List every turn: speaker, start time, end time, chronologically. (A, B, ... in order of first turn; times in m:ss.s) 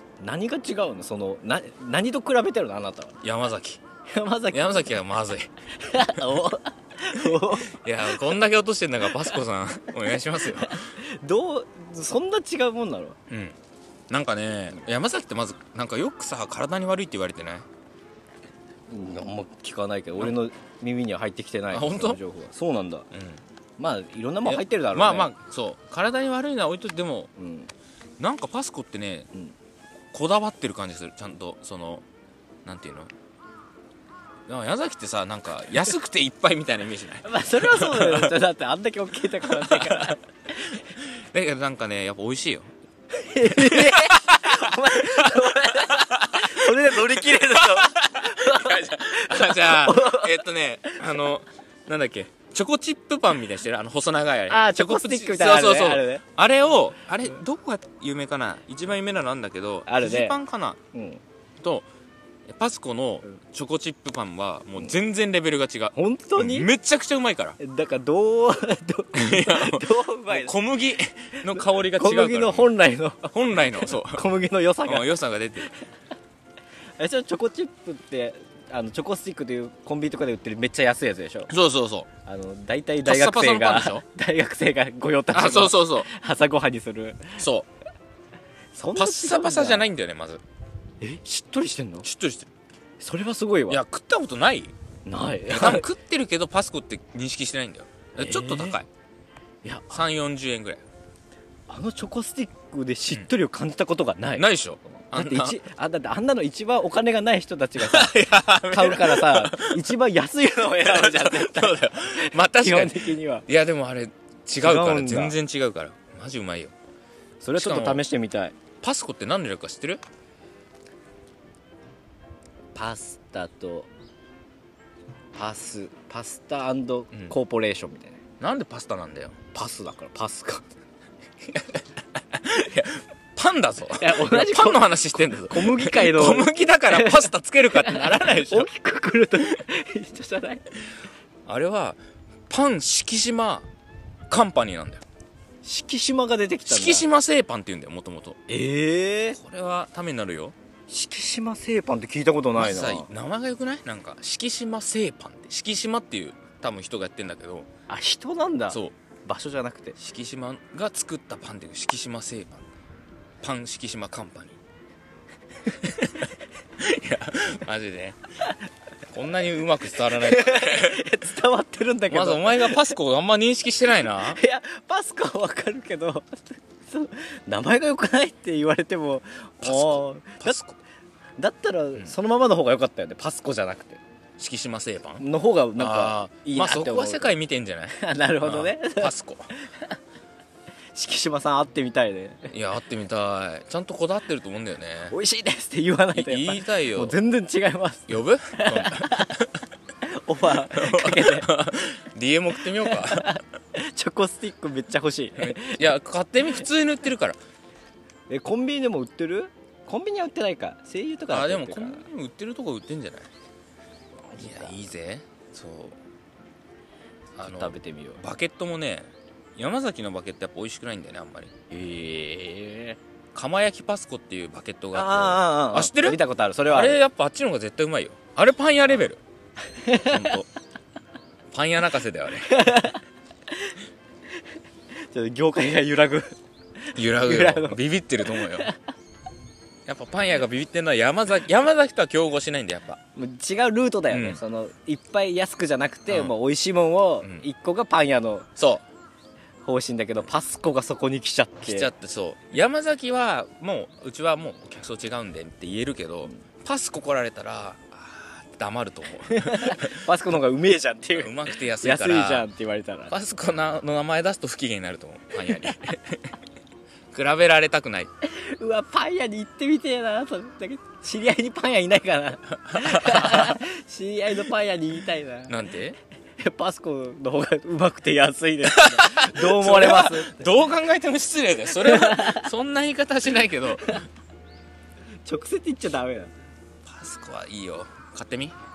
0:00.2-0:03.2 A
0:03.2-0:03.8 B
0:04.1-0:04.8 A
0:04.5-0:06.2 B
0:05.7-0:07.8 A
0:07.2-0:10.9 B
0:10.4-0:13.2 A
0:13.3-0:13.6 B
0:14.1-0:17.7 B
0:18.9-0:23.1 A
0:21.7-0:22.2 B
0:23.1-0:23.4 B
0:23.8-0:25.3 A
0:24.4-0:27.3 B
0:27.4-0:27.7 A
0:28.2-0:29.3 B
0:30.1-0:32.0 B
0:32.6-0:33.1 B
0:34.5-0:38.3 B
0:37.2-0:40.8 A
0:39.5-0:40.2 B
0:41.0-0:42.7 B
0:43.1-0:50.9 A
0:43.4-1:00.8 B
0:54.5-0:56.2 A
0:59.9-1:00.4 A
1:00.9-1:01.2 A
1:01.6-1:01.9 B
1:02.5-1:07.6 B
1:06.0-1:06.7 A
1:07.6-1:10.6 A
1:09.1-1:12.7 B
1:11.5-1:15.1 A
1:13.2-1:14.3 B
1:14.8-1:15.7 B
1:17.0-1:21.5 A
1:21.5-1:22.1 B
1:22.3-1:27.4 A
1:23.0-1:24.0 B
1:25.3-1:26.1 B
1:27.4-1:27.7 B
1:28.7-1:29.9 A
1:29.0-1:30.4 B
1:31.0-1:32.1 A
1:32.0-1:32.5 B
1:33.0-1:33.8 A
1:33.7-1:34.7 B
1:35.1-1:35.9 A
1:35.5-1:38.9 B
1:38.2-1:38.8 A
1:39.6-1:40.0 A
1:39.9-1:40.8 B
1:41.7-1:44.4 A
1:44.4-1:45.6 B
1:45.1-1:53.5 A
1:47.8-1:49.8 B
1:50.8-1:56.7 B
1:54.6-1:55.4 A
1:57.4-1:58.6 A
1:57.6-1:58.0 B
1:58.8-2:00.0 B
2:02.7-2:03.9 A
2:05.4-2:08.2 A
2:08.4-2:09.4 B
2:09.5-2:10.7 A
2:11.5-2:18.7 B
2:14.0-2:20.6 A
2:21.5-2:23.7 B
2:24.3-2:25.0 B
2:25.6-2:27.1 A
2:26.7-2:28.4 B
2:28.5-2:29.4 A
2:29.4-2:30.6 B
2:30.9-2:33.1 A
2:32.6-2:37.7 B
2:37.9-2:40.0 A
2:40.0-2:42.6 B
2:43.4-2:44.6 B
2:45.8-2:48.2 B
2:49.1-2:51.2 B
2:50.1-2:53.0 A
2:52.1-2:54.4 B
2:54.3-3:00.6 A
2:59.6-3:00.8 B
3:01.4-3:04.0 A
3:04.4-3:05.2 B
3:05.2-3:07.3 A
3:05.8-3:09.5 B
3:07.9-3:09.1 A
3:10.9-3:12.5 A
3:12.5-3:15.2 B
3:15.1-3:19.4 A
3:16.2-3:17.2 B
3:18.1-3:19.6 B
3:20.0-3:21.5 A
3:20.7-3:23.4 B
3:22.8-3:25.9 A
3:25.4-3:27.4 B
3:28.3-3:32.1 A
3:31.3-3:33.3 B
3:34.2-3:34.8 A
3:34.4-3:36.0 B
3:37.4-3:41.5 B
3:37.4-3:38.2 A
3:41.7-3:43.0 A
3:43.3-3:49.2 B
3:44.9-3:47.0 A
3:49.7-3:50.3 A
3:49.9-3:50.5 B
3:51.5-3:52.8 B
3:52.4-3:53.8 A
3:55.1-3:56.3 A
3:56.9-3:57.8 A
3:57.0-3:58.7 B
3:58.3-3:58.7 A
3:59.9-4:03.0 B
4:03.2-4:08.5 A
4:04.1-4:04.4 B
4:06.1-4:06.3 B
4:08.6-4:08.8 B
4:09.7-4:11.9 A
4:11.6-4:20.1 B
4:19.3-4:23.2 A
4:21.1-4:22.5 B
4:23.1-4:26.4 B
4:27.1-4:28.1 B
4:28.2-4:35.6 A
4:32.7-4:33.6 B
4:35.5-4:36.0 B
4:36.4-4:40.5 A
4:38.6-4:44.0 B
4:41.8-4:42.5 A
4:45.2-4:46.3 A
4:46.8-4:48.6 B